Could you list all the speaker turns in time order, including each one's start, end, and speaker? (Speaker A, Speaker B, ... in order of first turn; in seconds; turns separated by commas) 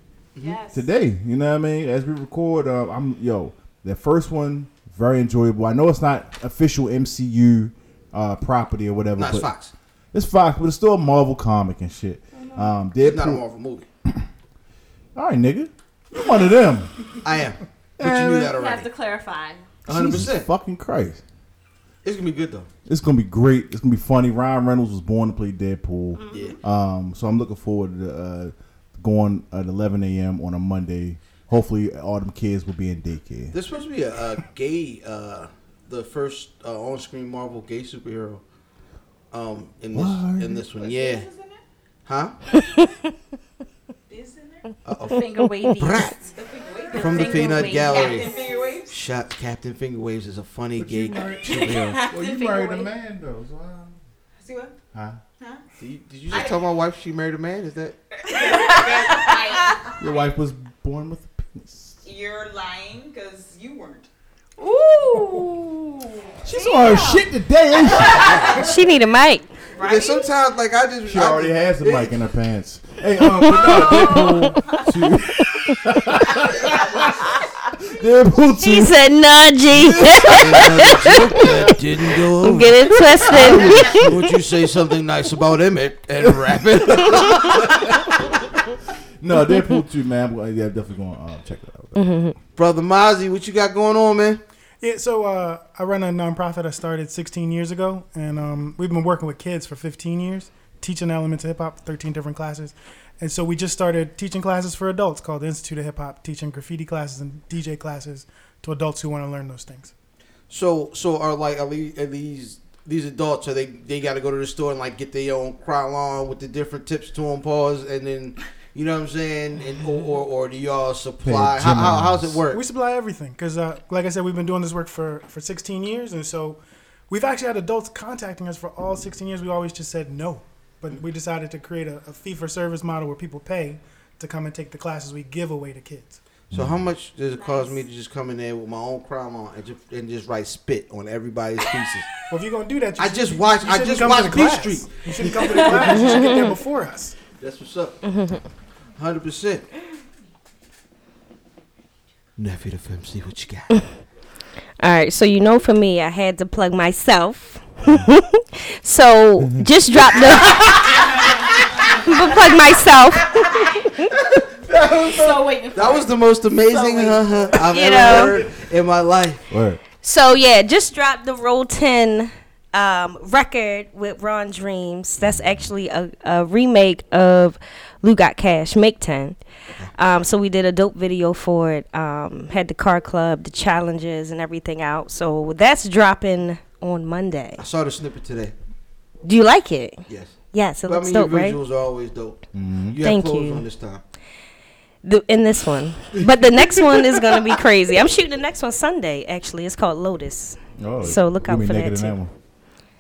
Speaker A: 0.4-0.9, Speaker B: 0.7-9.5, Speaker C: 9.2-9.7, Speaker B: 10.1-13.4, Speaker A: 12.3-12.7, Speaker C: 13.0-13.9, Speaker B: 15.2-16.9, Speaker C: 17.2-18.9, Speaker A: 18.0-19.7, Speaker C: 19.9-20.5, Speaker B: 19.9-21.2, Speaker C: 22.0-22.7, Speaker B: 22.9-33.6, Speaker A: 26.1-26.6, Speaker C: 26.3-26.6, Speaker C: 33.5-38.4, Speaker C: 39.3-41.3, Speaker B: 39.9-40.6, Speaker D: 40.7-41.6, Speaker C: 42.1-42.4, Speaker D: 44.1-44.7, Speaker C: 44.9-45.2, Speaker A: 45.1-46.3, Speaker C: 45.8-46.2, Speaker D: 46.3-48.9, Speaker A: 46.9-48.5, Speaker C: 46.9-48.4, Speaker C: 48.9-52.0, Speaker B: 50.8-54.0, Speaker A: 51.8-52.9, Speaker D: 54.4-54.8, Speaker B: 54.9-55.2, Speaker C: 55.8-58.0, Speaker D: 56.3-56.7, Speaker D: 58.2-60.3, Speaker A: 58.3-59.7, Speaker B: 60.0-62.0, Speaker D: 62.0-64.1, Speaker A: 64.6-67.3, Speaker B: 66.4-68.6, Speaker A: 67.9-68.5, Speaker E: 68.5-69.5, Speaker C: 69.8-72.2, Speaker D: 69.8-70.2, Speaker B: 71.1-77.1, Speaker A: 73.5-74.8, Speaker D: 76.5-77.2, Speaker B: 77.8-79.0, Speaker E: 78.6-81.3, Speaker B: 79.7-81.7, Speaker C: 80.4-88.0, Speaker E: 82.4-84.1, Speaker B: 83.3-84.2, Speaker B: 86.2-88.1, Speaker B: 89.2-92.0, Speaker E: 92.0-92.3, Speaker C: 92.6-94.4, Speaker F: 94.8-109.9, Speaker C: 110.5-122.6, Speaker B: 121.2-122.4, Speaker F: 122.5-136.2, Speaker C: 136.5-142.3, Speaker B: 136.5-136.9, Speaker A: 137.4-137.8, Speaker F: 142.3-147.2, Speaker C: 143.0-146.2, Speaker E: 146.0-146.4, Speaker C: 147.4-148.0, Speaker E: 148.1-148.4, Speaker C: 149.0-149.7, Speaker C: 152.4-153.8, Speaker E: 154.8-161.2, Speaker B: 157.9-158.2, Speaker B: 159.4-159.7, Speaker E: 161.9-163.6, Speaker C: 164.2-169.4, Speaker A: 164.9-167.6, Speaker E: 167.7-168.3, Speaker B: 169.5-169.8, Speaker E: 170.0-179.4, Speaker E: 179.9-187.6, Speaker C: 187.6-188.5, Speaker E: 189.2-190.0, Speaker C: 190.1-194.0, Speaker E: 190.5-191.6, Speaker B: 192.5-193.0, Speaker E: 193.0-193.7, Speaker E: 195.0-202.2, Speaker B: 200.8-202.3